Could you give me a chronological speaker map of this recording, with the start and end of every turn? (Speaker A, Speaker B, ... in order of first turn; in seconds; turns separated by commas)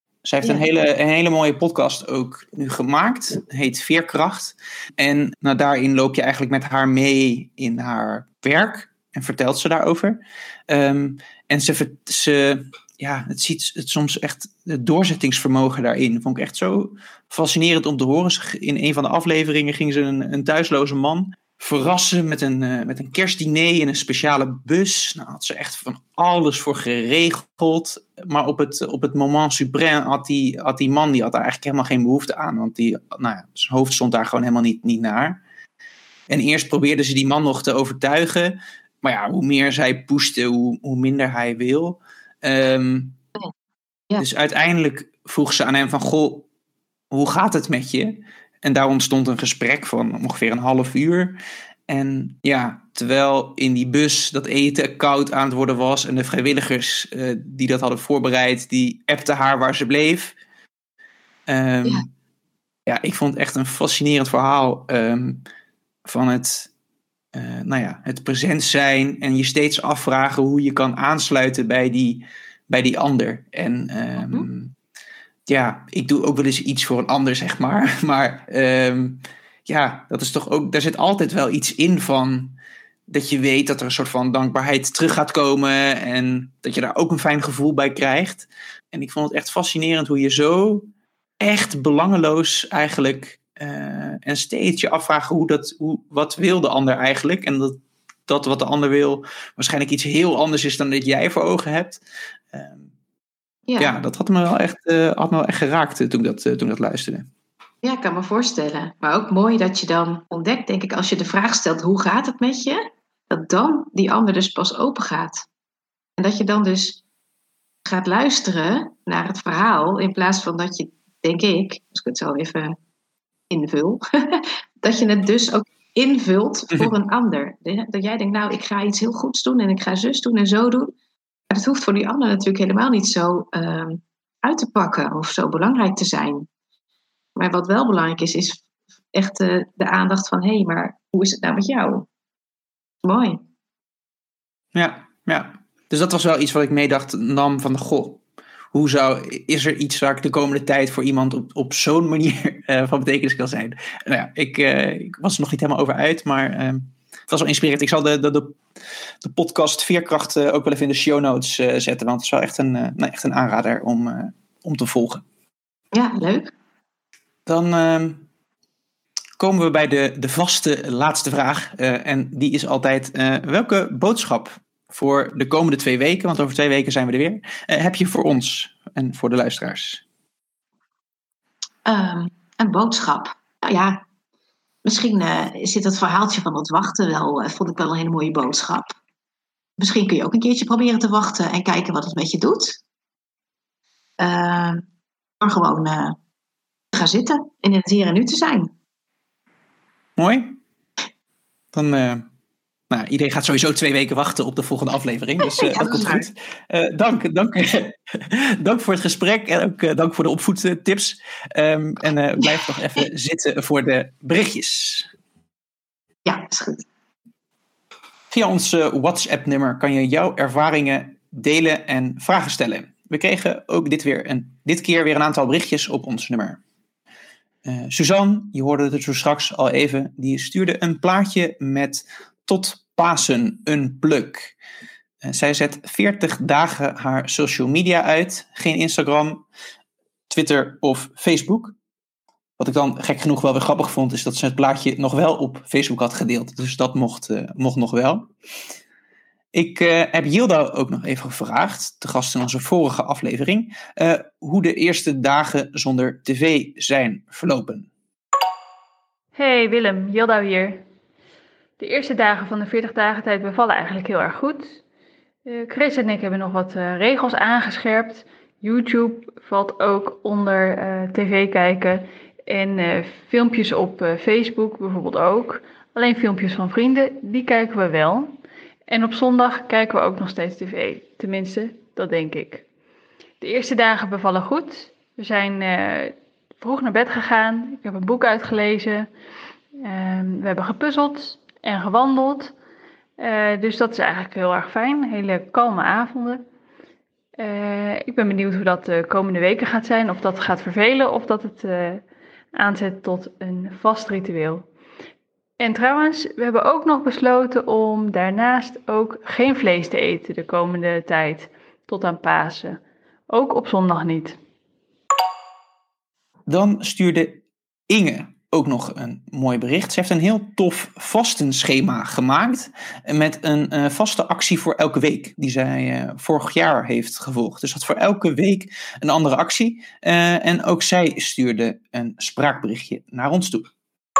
Speaker A: 0.2-35.4, Speaker A: 36.3-43.2, Speaker A: 44.2-46.5, Speaker A: 47.1-60.4, Speaker A: 61.5-62.1, Speaker A: 62.9-65.4, Speaker A: 66.0-66.7, Speaker A: 67.3-74.7, Speaker A: 75.5-82.6, Speaker A: 83.1-90.9, Speaker A: 91.4-102.0, Speaker A: 102.5-102.9, Speaker B: 103.7-104.0, Speaker A: 103.8-107.3, Speaker B: 107.8-115.5, Speaker B: 116.2-117.0, Speaker B: 117.8-122.8, Speaker B: 123.5-130.9, Speaker B: 131.5-136.5, Speaker B: 137.3-142.1, Speaker B: 143.0-143.4, Speaker A: 144.7-148.2, Speaker A: 148.7-158.6, Speaker A: 159.2-165.2, Speaker B: 165.9-166.5, Speaker A: 167.4-168.2, Speaker A: 169.4-180.0, Speaker B: 181.8-184.0, Speaker B: 184.8-188.9, Speaker B: 189.8-192.8, Speaker B: 194.2-194.8, Speaker B: 195.4-196.2, Speaker B: 196.9-198.7, Speaker A: 200.2-200.6, Speaker A: 201.7-202.2, Speaker A: 202.9-215.1, Speaker B: 205.4-206.3, Speaker B: 216.2-216.8, Speaker A: 218.3-226.6, Speaker A: 227.6-234.5, Speaker A: 235.2-239.4, Speaker A: 240.3-241.8, Speaker A: 242.6-248.3, Speaker A: 249.5-257.9, Speaker C: 259.3-260.8, Speaker C: 261.8-264.8, Speaker C: 265.4-282.6, Speaker C: 283.4-289.1, Speaker C: 289.8-292.5, Speaker C: 293.2-296.4, Speaker C: 297.4-304.7, Speaker C: 305.6-314.4, Speaker A: 316.5-333.7